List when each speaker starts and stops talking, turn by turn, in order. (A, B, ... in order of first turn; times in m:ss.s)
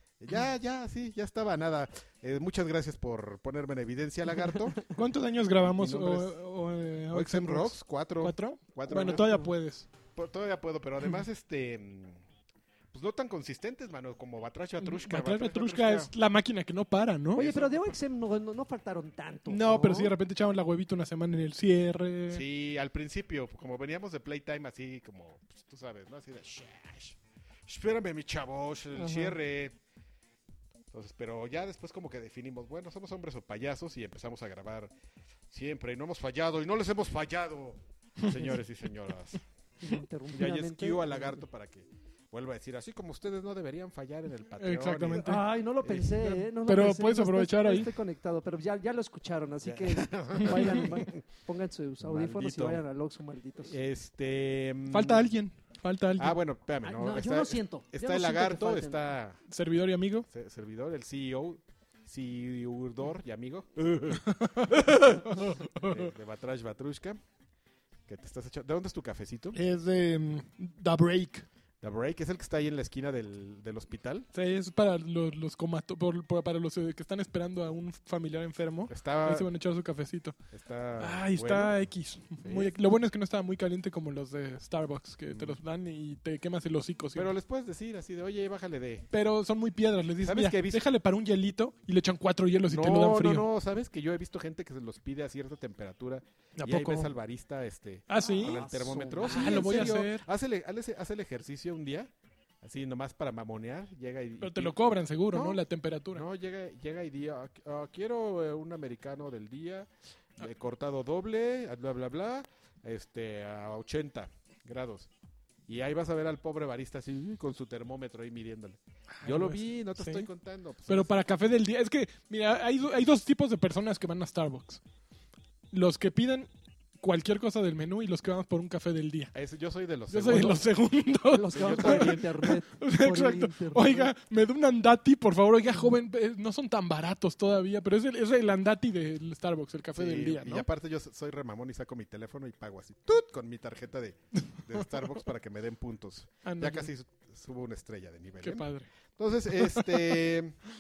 0:00.2-0:04.9 A
0:04.9-0:09.9 B
0:05.8-0:06.3 A
0:07.1-0:09.4 A
0:09.1-0:09.4 C
0:10.1-0:12.2 A
0:12.9-0:16.1 A
0:14.8-0:17.4 B
0:17.4-0:18.0 A
0:17.4-0:20.1 C
0:19.5-0:22.4 B
0:22.3-0:29.8 A
0:29.0-0:29.4 C
0:30.9-0:34.9 A
0:35.5-0:39.4 A
0:39.8-0:41.4 C
0:40.3-0:45.3 A
0:44.6-0:45.4 B
0:45.2-0:53.8 C
0:45.8-0:46.2 A
0:46.2-0:47.9 B
0:49.6-0:51.2 A
0:50.5-0:50.8 B
0:52.0-0:52.8 A
0:53.7-0:55.3 A
0:54.9-0:56.4 B
0:56.2-0:59.4 A
0:56.8-0:59.0 C
0:59.5-1:00.3 B
1:00.3-1:07.2 A
1:04.2-1:06.1 B
1:08.1-1:09.6 A
1:09.6-1:11.5 B
1:11.8-1:14.3 A
1:14.3-1:20.4 B
1:18.9-1:19.5 A
1:20.5-1:21.8 A
1:21.0-1:27.3 B
1:22.4-1:22.7 A
1:27.2-1:29.1 A
1:29.1-1:33.5 B
1:30.2-1:30.8 A
1:32.7-1:42.1 A
1:36.6-1:37.1 B
1:38.1-1:40.2 B
1:38.3-1:40.0 C
1:42.6-1:55.1 A
1:44.4-1:46.2 B
1:55.7-2:01.2 A
1:59.2-2:00.3 B
2:00.9-2:04.8 B
2:05.7-2:06.5 B
2:07.0-2:09.3 B
2:09.3-2:10.6 A
2:10.1-2:20.7 B
2:11.3-2:14.1 C
2:11.5-2:12.3 A
2:20.0-2:30.6 A
2:26.4-2:26.9 B
2:28.4-2:28.9 B
2:29.5-2:30.2 B